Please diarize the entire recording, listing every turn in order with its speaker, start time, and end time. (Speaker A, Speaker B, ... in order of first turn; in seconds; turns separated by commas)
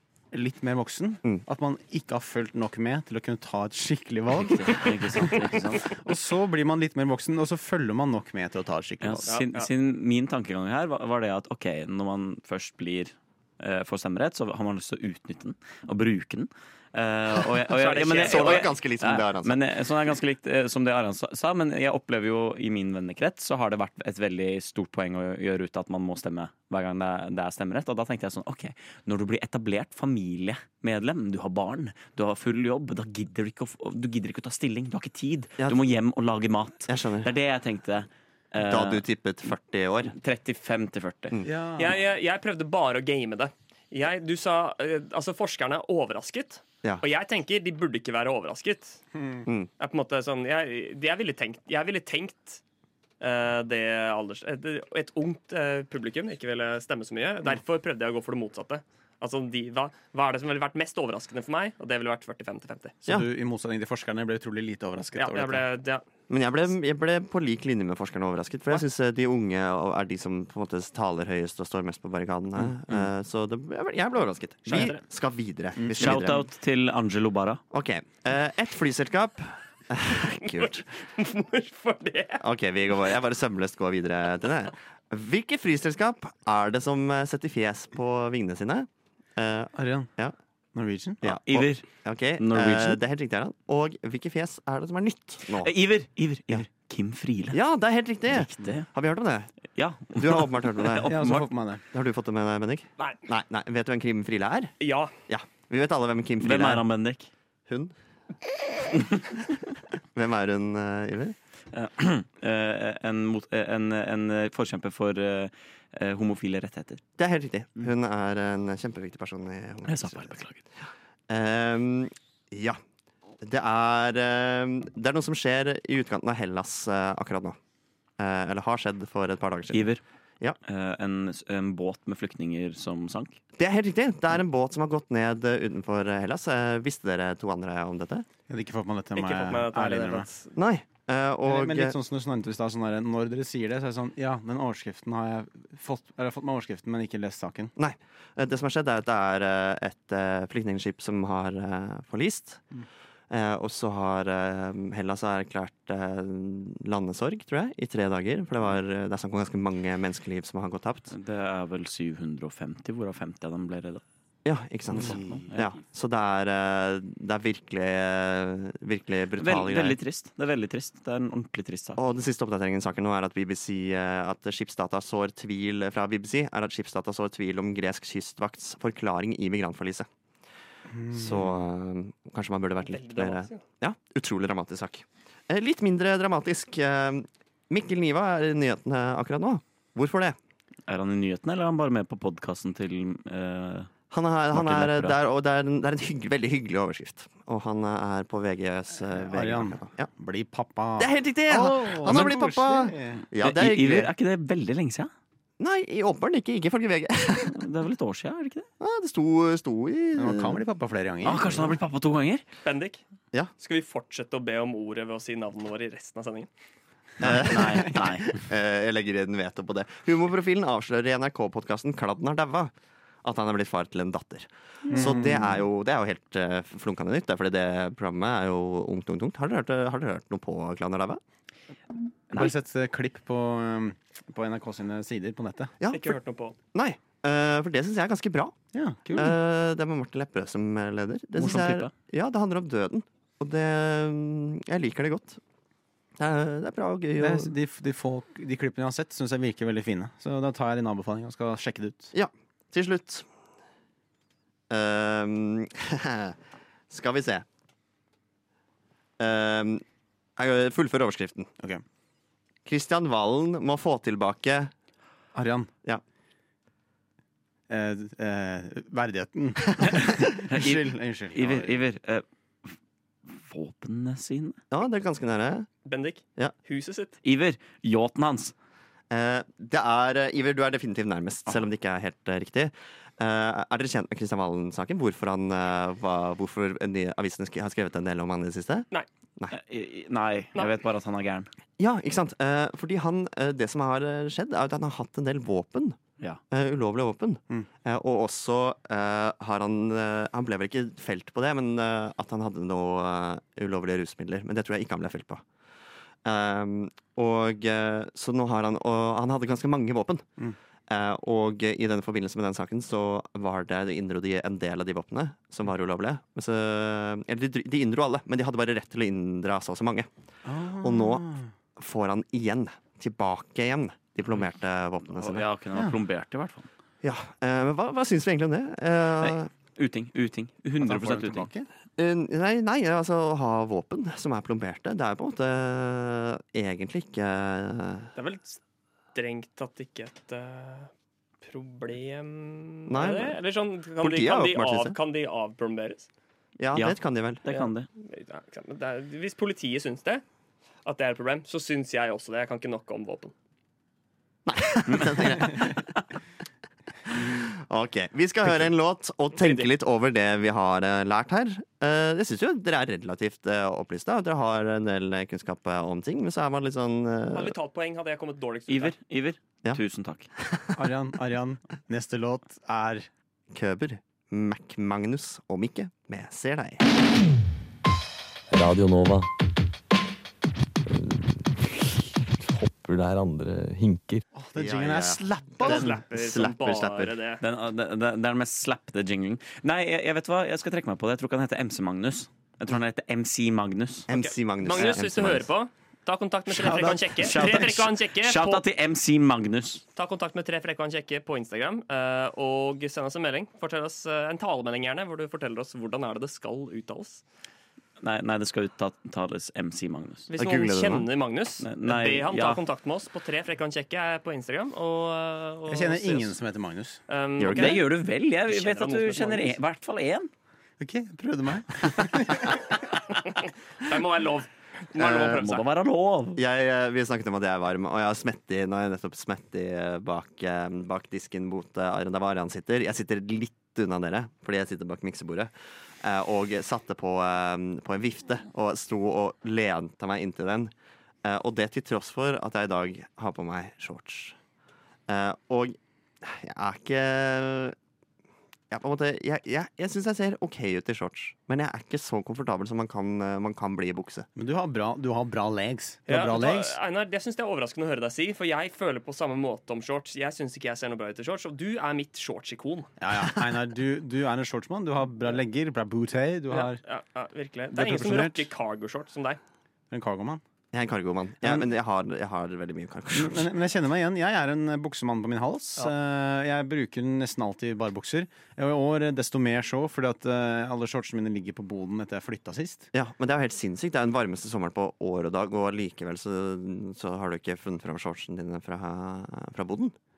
Speaker A: 0.3-5.3, Speaker B: 4.4-5.9, Speaker A: 5.9-9.3, Speaker B: 9.0-39.0, Speaker C: 9.3-9.7, Speaker C: 17.7-18.7, Speaker D: 18.0-19.6, Speaker D: 36.9-37.3, Speaker D: 38.6-40.1, Speaker B: 40.1-41.4, Speaker A: 41.5-42.0, Speaker C: 41.8-49.0, Speaker A: 49.1-49.4, Speaker C: 49.8-52.6, Speaker C: 53.2-63.0, Speaker A: 63.0-65.7, Speaker C: 65.2-66.0, Speaker D: 66.3-76.5, Speaker B: 76.0-77.6, Speaker D: 77.7-80.8, Speaker C: 80.5-82.4, Speaker D: 82.4-90.3, Speaker A: 89.8-90.1, Speaker A: 90.8-91.2, Speaker D: 91.2-95.7, Speaker B: 91.2-91.8, Speaker B: 92.4-93.0, Speaker B: 95.5-97.6, Speaker D: 97.5-99.5, Speaker B: 98.3-98.9, Speaker B: 99.8-101.5, Speaker D: 100.1-101.2, Speaker A: 101.1-101.8, Speaker D: 101.9-104.7, Speaker C: 104.8-105.1, Speaker D: 105.3-106.8, Speaker B: 106.4-107.3, Speaker D: 107.7-107.9, Speaker D: 110.1-111.4, Speaker B: 111.7-117.0, Speaker D: 117.2-120.4, Speaker B: 119.9-120.6, Speaker D: 121.3-122.8, Speaker D: 123.4-127.6, Speaker D: 128.2-130.6, Speaker B: 129.7-130.0, Speaker B: 130.7-133.4, Speaker D: 133.6-138.3, Speaker A: 138.5-140.3, Speaker C: 139.2-140.5, Speaker D: 140.6-142.0, Speaker A: 141.5-147.7, Speaker D: 147.8-152.6, Speaker D: 153.3-161.1, Speaker B: 161.1-164.0, Speaker D: 164.4-170.0, Speaker A: 164.9-165.5, Speaker B: 164.9-165.7, Speaker B: 169.4-172.0, Speaker D: 172.0-180.1, Speaker A: 180.9-181.4, Speaker D: 181.1-190.4, Speaker C: 182.8-183.6, Speaker B: 190.9-193.9, Speaker D: 194.1-200.1, Speaker B: 194.5-195.2, Speaker A: 199.3-203.2, Speaker D: 201.0-204.1, Speaker B: 203.4-205.1, Speaker D: 205.6-207.6, Speaker B: 207.5-208.7, Speaker D: 208.8-210.6, Speaker A: 210.2-211.8, Speaker B: 211.2-212.4, Speaker C: 212.6-213.0, Speaker C: 213.6-216.5, Speaker D: 217.2-222.7, Speaker B: 217.2-218.4, Speaker D: 223.2-231.2, Speaker A: 224.9-225.6, Speaker A: 232.3-235.7, Speaker D: 235.8-236.2, Speaker C: 235.9-236.6, Speaker D: 236.7-238.6, Speaker A: 238.7-239.3, Speaker D: 239.1-245.4, Speaker B: 241.4-241.9, Speaker D: 246.2-247.5, Speaker A: 247.2-252.1, Speaker D: 252.1-253.3, Speaker D: 254.7-256.4, Speaker D: 256.9-257.4, Speaker D: 259.2-259.8, Speaker D: 260.4-261.5, Speaker D: 262.7-264.7, Speaker A: 265.4-265.7, Speaker A: 267.7-271.8, Speaker B: 270.5-272.7, Speaker B: 273.3-274.6, Speaker D: 274.7-275.7, Speaker C: 275.9-277.2, Speaker B: 277.2-278.5, Speaker D: 279.1-289.6, Speaker B: 289.5-291.5, Speaker D: 291.8-296.0, Speaker D: 296.5-305.4, Speaker D: 306.2-310.3, Speaker D: 310.9-320.1, Speaker A: 320.4-321.5, Speaker D: 320.8-325.4, Speaker B: 325.1-326.7, Speaker D: 327.0-329.5, Speaker B: 329.2-331.5, Speaker A: 330.8-331.7, Speaker D: 332.0-338.1, Speaker C: 338.1-338.6, Speaker C: 339.1-340.9, Speaker C: 341.4-346.1, Speaker D: 342.9-343.4, Speaker D: 344.0-345.0, Speaker D: 346.6-347.4, Speaker B: 346.8-347.9, Speaker C: 347.5-350.2, Speaker C: 350.9-353.3, Speaker D: 354.5-355.9, Speaker B: 354.9-355.7, Speaker D: 357.1-367.6, Speaker C: 359.4-359.7, Speaker C: 367.3-368.9, Speaker B: 368.7-370.3, Speaker D: 370.4-370.7, Speaker A: 370.8-373.1, Speaker D: 373.5-376.8, Speaker E: 378.5-379.3, Speaker E: 380.9-384.2, Speaker A: 384.3-385.9, Speaker D: 384.6-387.1, Speaker C: 385.6-387.4, Speaker B: 387.4-394.1, Speaker D: 394.1-395.5, Speaker C: 394.1-398.6, Speaker B: 396.6-399.8, Speaker A: 396.6-397.3, Speaker C: 400.0-407.2, Speaker B: 408.0-410.3, Speaker C: 410.3-416.4, Speaker D: 410.4-411.1, Speaker B: 411.6-412.6, Speaker A: 415.7-417.0, Speaker C: 417.1-419.6, Speaker D: 417.4-417.8, Speaker B: 417.5-420.3, Speaker A: 420.8-422.5, Speaker C: 423.2-425.6, Speaker D: 425.0-425.5, Speaker B: 425.3-426.4, Speaker D: 426.4-440.7, Speaker D: 441.2-444.4, Speaker D: 445.1-447.8, Speaker D: 448.7-454.3, Speaker A: 454.4-456.8, Speaker C: 456.1-462.9, Speaker A: 463.0-466.8, Speaker C: 466.5-469.4, Speaker A: 467.7-468.5, Speaker A: 469.9-470.4, Speaker D: 470.7-473.5, Speaker A: 473.1-482.9, Speaker D: 482.9-489.9